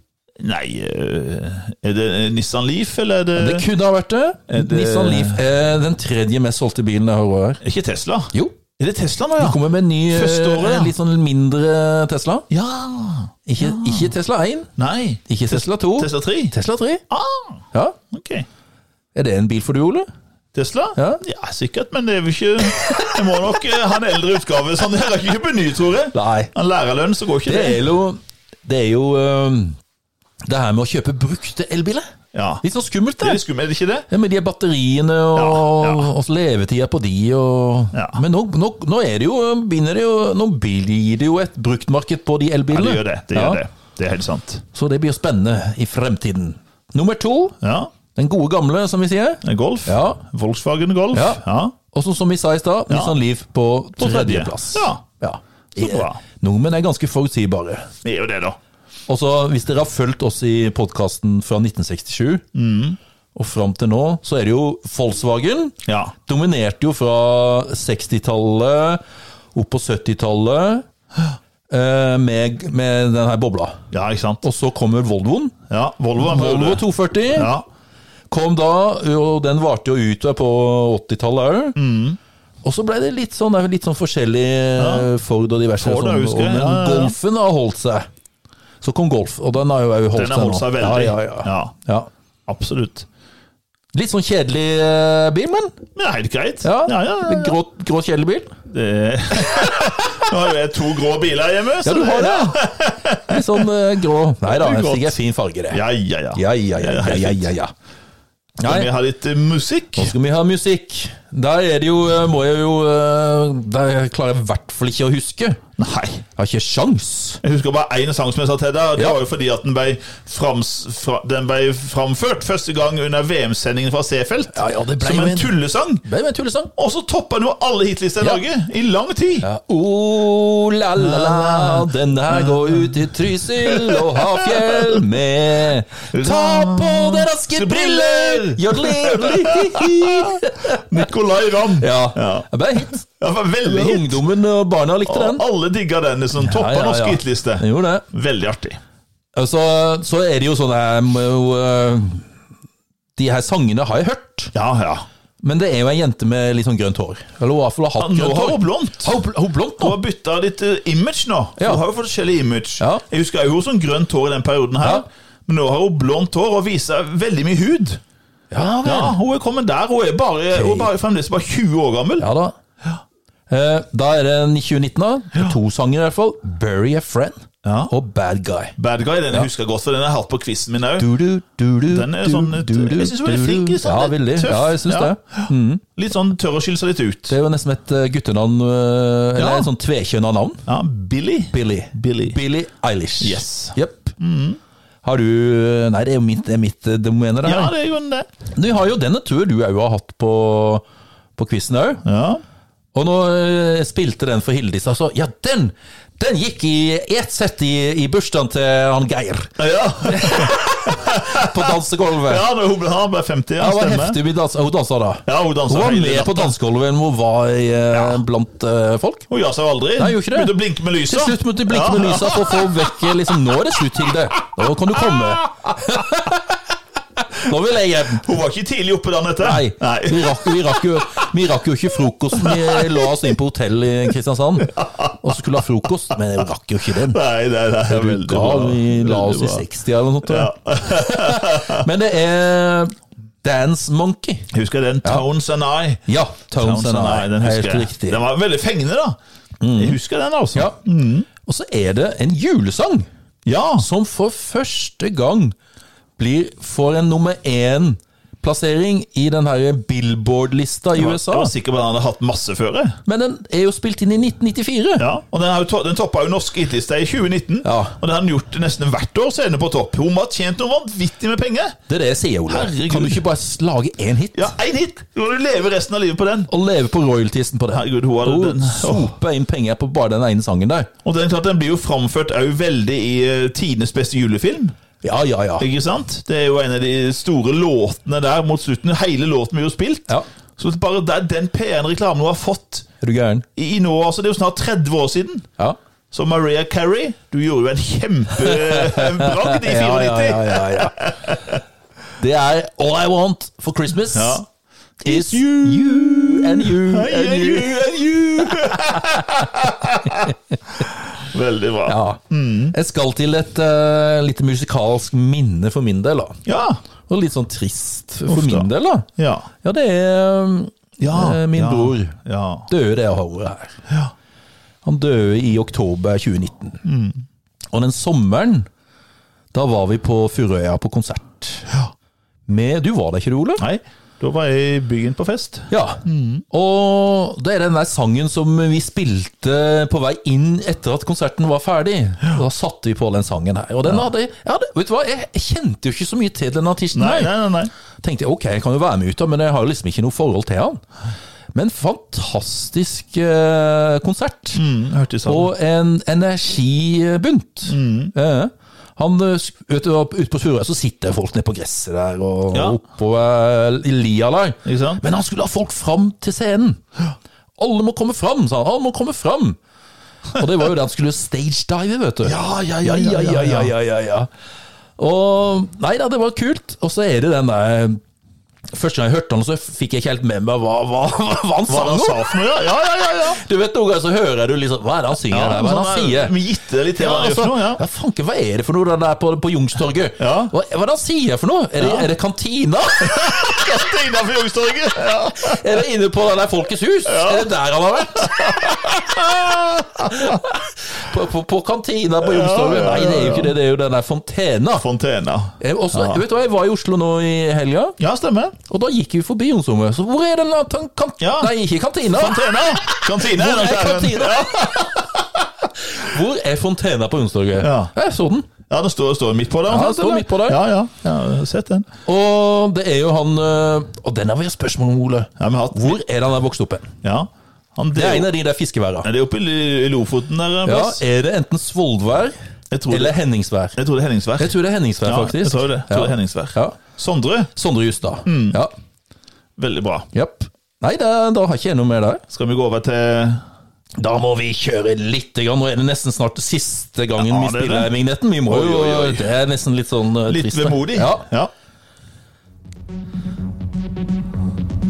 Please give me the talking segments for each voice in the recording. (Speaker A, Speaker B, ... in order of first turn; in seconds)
Speaker A: 0.4-3.6, 4.5-5.4, 7.6-10.9, 12.5-14.1, 14.8-16.5, 17.1-18.4, 20.5-27.8, 32.3-32.6, 33.2-34.1, 35.3-36.1, 37.9-38.2, 42.7-44.6, 47.6-47.9, 49.4-51.8, 52.9-53.1, 54.0-55.0, 55.7-56.2, 58.0-58.6, 62.5-63.0, 65.8-66.1, 73.9-74.4, 75.7-77.6, 81.8-82.2, 84.8-85.1, 85.8-87.1, 90.1-91.7, 92.5-93.1, 95.9-97.5, 98.7-103.7, 104.4-105.2, 105.7-107.5, 108.6-110.1, 115.8-116.2, 117.4-126.0, 126.8-129.4, 131.0-135.1, 136.1-142.5, 143.1-144.2, 145.1-148.8, 154.5-155.1, 158.0-159.1, 159.8-168.0, 168.8-172.3, 177.6-177.9, 178.8-181.1, 181.9-187.3, 189.3-189.7, 190.7-192.4, 193.2-194.6, 197.4-198.3, 202.0-202.4, 209.6-214.2, 215.2-216.5, 217.9-218.2, 219.3-222.9, 228.2-230.9, 232.4-233.3, 234.7-235.1, 237.0-239.7, 240.2-241.9, 244.5-249.2, 249.8-251.3, 253.4-253.8, 260.9-263.0, 265.0-271.8, 272.5-273.2, 274.3-276.5, 277.7-279.1, 281.0-284.7, 285.6-292.9, 293.6-295.5, 296.1-301.6, 304.1-304.4, 305.0-312.7, 316.4-316.8, 318.3-319.5, 321.0-322.7, 326.8-327.2, 333.6-336.4, 346.9-347.7, 354.5-355.5, 357.7-358.1, 362.5-362.8, 364.6-365.0, 372.2-373.7, 381.7-383.4, 385.3-387.8, 390.2-390.5, 391.8-392.1, 393.0-395.6, 397.1-397.5, 398.2-400.4, 402.2-403.5, 404.8-406.2, 408.0-408.6, 411.2-411.5, 412.1-415.4, 417.6-417.9, 418.7-421.9, 425.4-426.0, 427.0-428.3, 429.0-431.0, 432.7-433.2, 433.8-437.5, 438.2-438.6, 439.6-440.1, 442.3-443.4, 447.2-447.9, 448.4-449.3, 450.3-451.5
Speaker B: 3.4-7.6, 9.4-12.5, 13.5-14.7, 15.3-17.0, 19.1-20.1, 20.9-21.2, 22.8-23.1, 26.1-26.5, 27.4-29.8, 30.4-33.4, 34.1-43.6, 44.7-47.5, 48.1-50.2, 51.1-57.9, 59.1-62.4, 63.3-69.0, 69.5-70.8, 71.7-73.8, 74.4-75.5, 76.2-77.5, 78.3-81.8, 82.6-88.1, 88.8-92.1, 93.9-95.8, 96.6-98.6, 99.5-100.0, 101.8-102.7, 103.2-105.8, 106.3-107.7, 108.6-108.9, 109.9-115.6, 116.3-117.4, 124.5-126.7, 129.4-141.1, 141.8-143.1, 143.6-145.4, 146.4-148.0, 149.3-152.3, 153.2-154.5, 155.4-160.0, 168.5-169.2, 170.5-170.9, 172.2-172.6, 173.5-178.7, 181.0-185.8, 187.3-190.6, 191.5-194.1, 195.0-197.7, 198.5-200.8, 201.4-202.0, 202.9-212.5, 213.6-219.3, 220.0-226.6, 227.3-228.2, 229.4-237.2, 237.9-244.5, 246.1-248.2, 249.6-250.0, 251.4-253.1, 253.8-255.5, 256.2-261.5, 263.1-265.1, 267.6-268.0, 271.9-274.5, 276.5-280.9, 285.0-285.7, 293.0-293.4, 298.3-301.3, 302.2-304.4, 305.0-309.4, 310.1-310.3, 311.9-312.2, 312.7-316.4, 317.1-319.1, 319.6-322.1, 322.7-323.8, 324.8-326.8, 327.7-328.7, 329.5-331.7, 332.5-333.6, 335.7-347.3, 348.0-350.8, 351.5-354.6, 355.2-366.8, 367.6-369.6, 370.3-374.3, 375.0-378.0, 378.7-382.3, 383.3-386.3, 387.0-393.7, 395.4-404.8, 405.6-408.0, 408.6-414.9, 415.8-418.5, 419.7-420.6, 422.1-426.9, 427.9-429.1, 430.6-432.3, 432.9-433.8, 434.4-436.8, 437.6-438.7, 440.1-442.2, 444.0-451.3